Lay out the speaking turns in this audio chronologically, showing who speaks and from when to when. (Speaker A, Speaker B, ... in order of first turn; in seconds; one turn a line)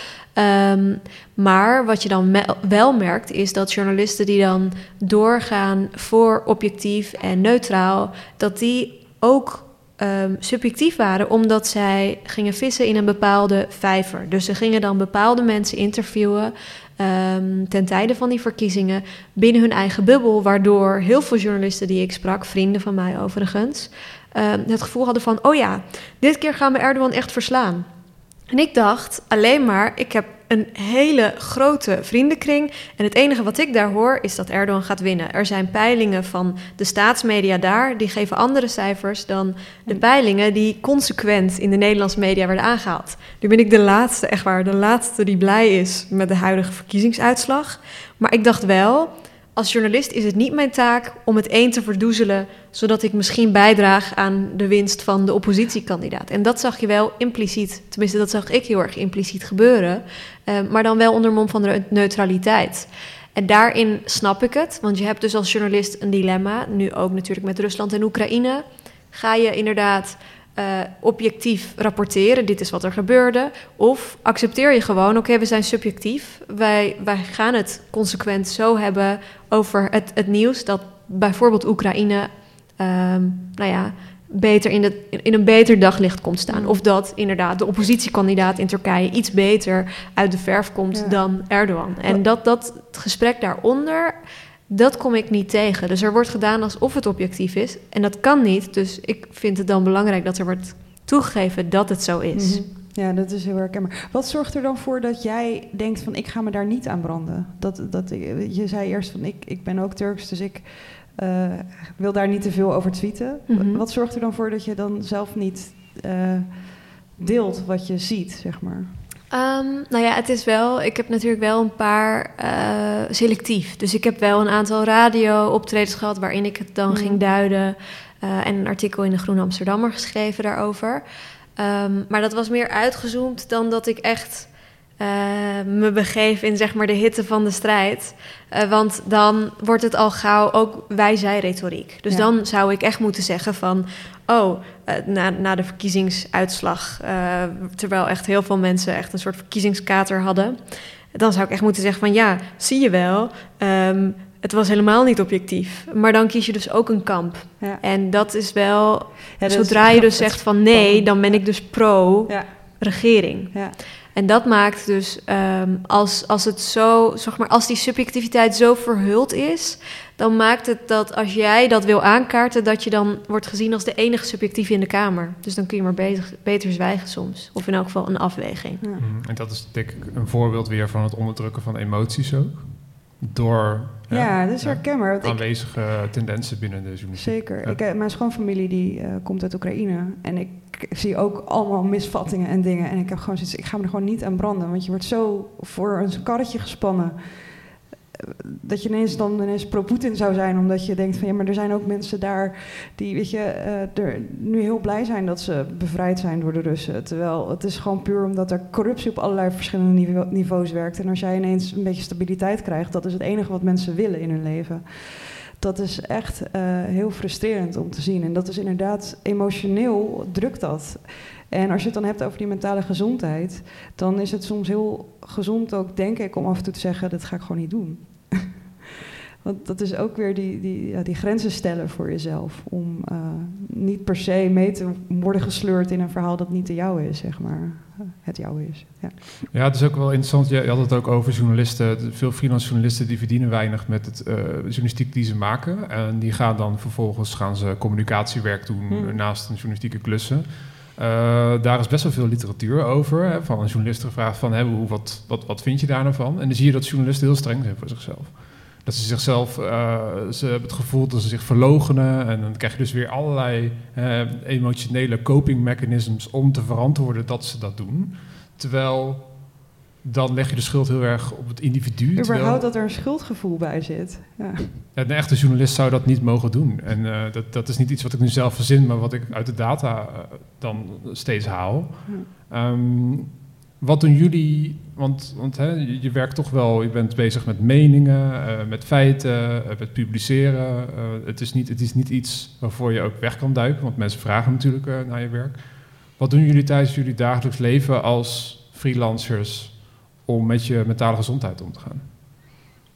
Speaker A: 0.3-27.9
Speaker A: 28.5-94.2
Speaker B: 86.5-86.8
Speaker B: 90.9-91.2
Speaker A: 94.7-102.6
Speaker B: 102.3-118.9
Speaker A: 113.5-113.8
Speaker A: 119.3-131.0
Speaker B: 126.9-127.2
Speaker A: 131.6-150.6
Speaker A: 151.1-178.8
Speaker B: 159.4-161.4
Speaker C: 179.0-187.8
Speaker B: 184.1-185.4
Speaker B: 187.2-197.5
Speaker B: 198.1-228.6
Speaker B: 229.4-239.4
Speaker C: 239.5-272.6
Speaker B: 248.9-249.2
Speaker B: 272.1-274.8
Speaker C: 274.9-295.6
Speaker C: 296.1-302.0